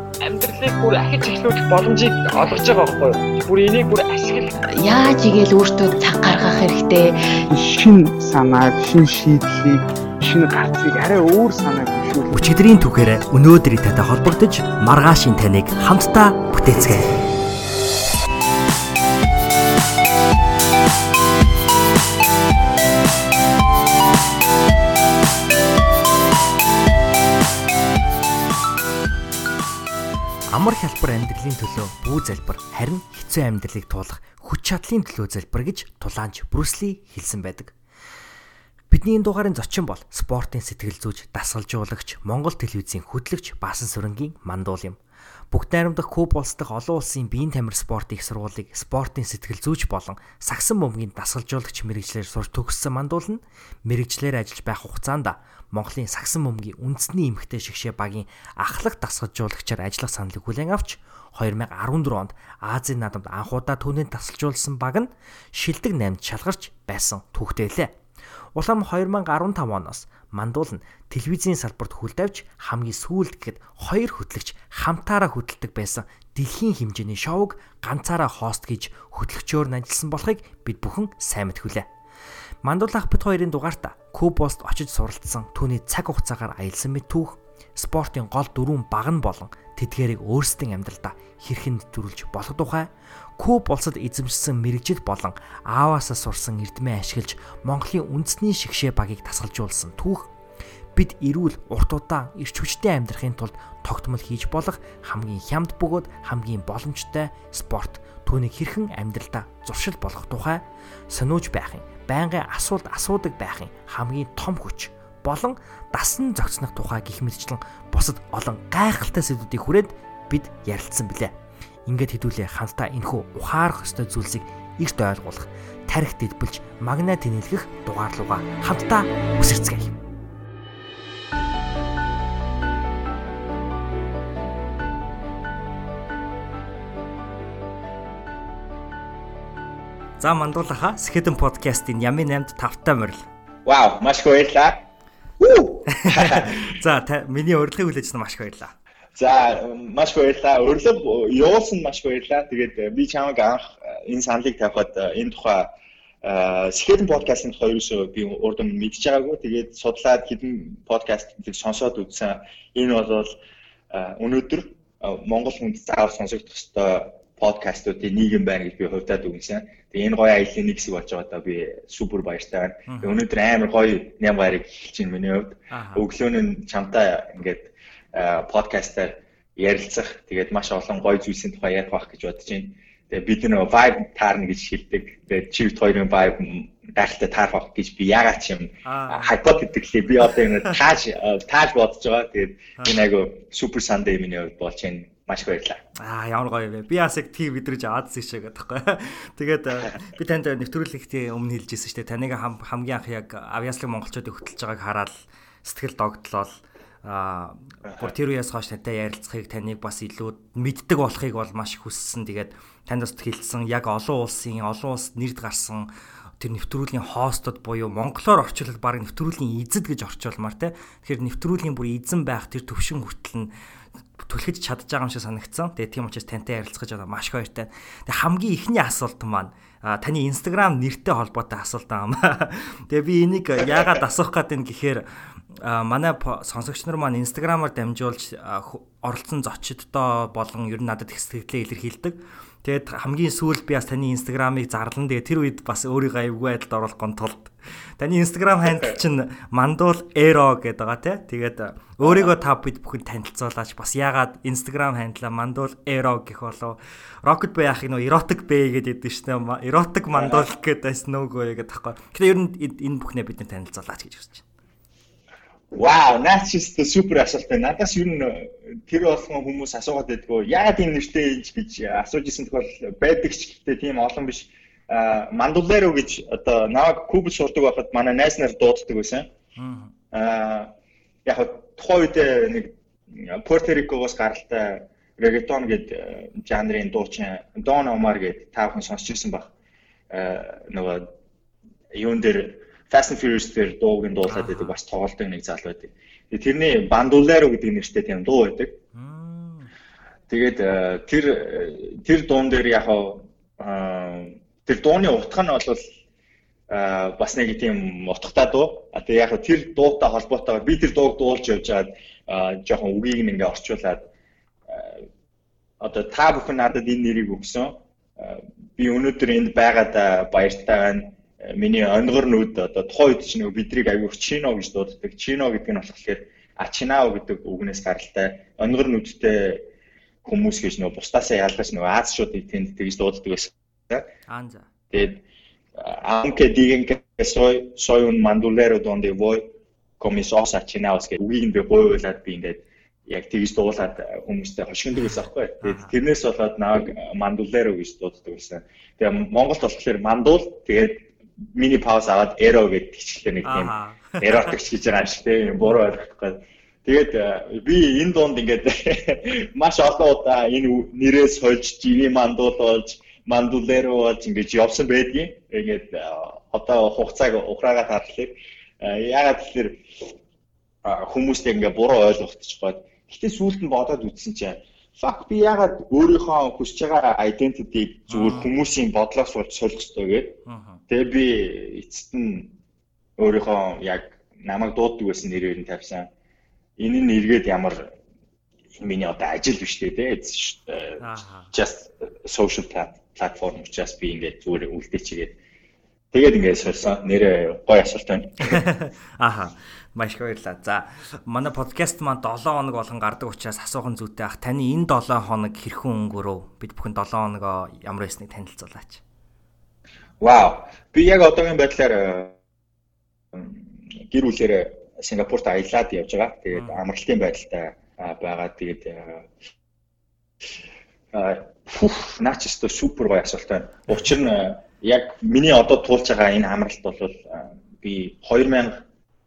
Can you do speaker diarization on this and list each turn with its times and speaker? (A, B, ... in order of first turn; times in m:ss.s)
0:00.2-0:04.7 A
0:04.7-0:07.4 B
0:07.5-0:12.5 C
0:12.3-0:17.2 D
0:30.5-0:37.8 D
0:38.9-0:45.0 D
0:45.5-1:08.0 D
1:08.6-1:21.9 D
1:22.6-1:40.3 D
1:40.9-2:01.4 D
2:01.9-2:10.0 D
2:20.2-2:23.3 D
2:23.7-2:24.8 E
2:25.4-2:26.7 E
2:25.9-2:28.7 D
2:29.2-2:35.7 E
2:36.2-2:43.4 E
2:43.9-3:15.8 E
2:52.9-2:53.2 D
2:55.7-2:56.0 D
3:08.8-3:09.3 D
3:16.0-3:43.5 D
3:27.8-3:28.1 E
3:44.2-4:24.4 D
4:20.1-4:20.5 E
4:25.7-4:39.3 E
4:39.6-4:39.9 D
4:40.1-4:40.7 E
4:41.2-4:49.5 E
4:50.1-4:51.1 E
4:51.9-4:58.8 E
4:54.3-4:54.8 D
4:58.9-4:59.7 D
5:00.3-5:05.9 E
5:06.7-5:14.1 E
5:14.7-5:15.1 E
5:15.8-5:29.7 E
5:30.2-5:34.1 E
5:34.3-5:34.7 D
5:34.9-5:35.2 E
5:35.8-6:09.8 E
5:45.0-5:45.9 D
5:53.4-5:54.5 D
6:10.8-6:22.6 E
6:18.1-6:18.5 D
6:20.5-6:20.8 D
6:23.2-6:26.1 E
6:26.8-6:28.0 E
6:28.8-6:35.4 E
6:31.0-6:31.5 D
6:36.1-6:38.6 E
6:38.4-6:49.0 D
6:50.2-6:52.4 E
6:53.3-6:59.3 E
6:56.6-6:56.8 D
7:01.1-7:08.8 E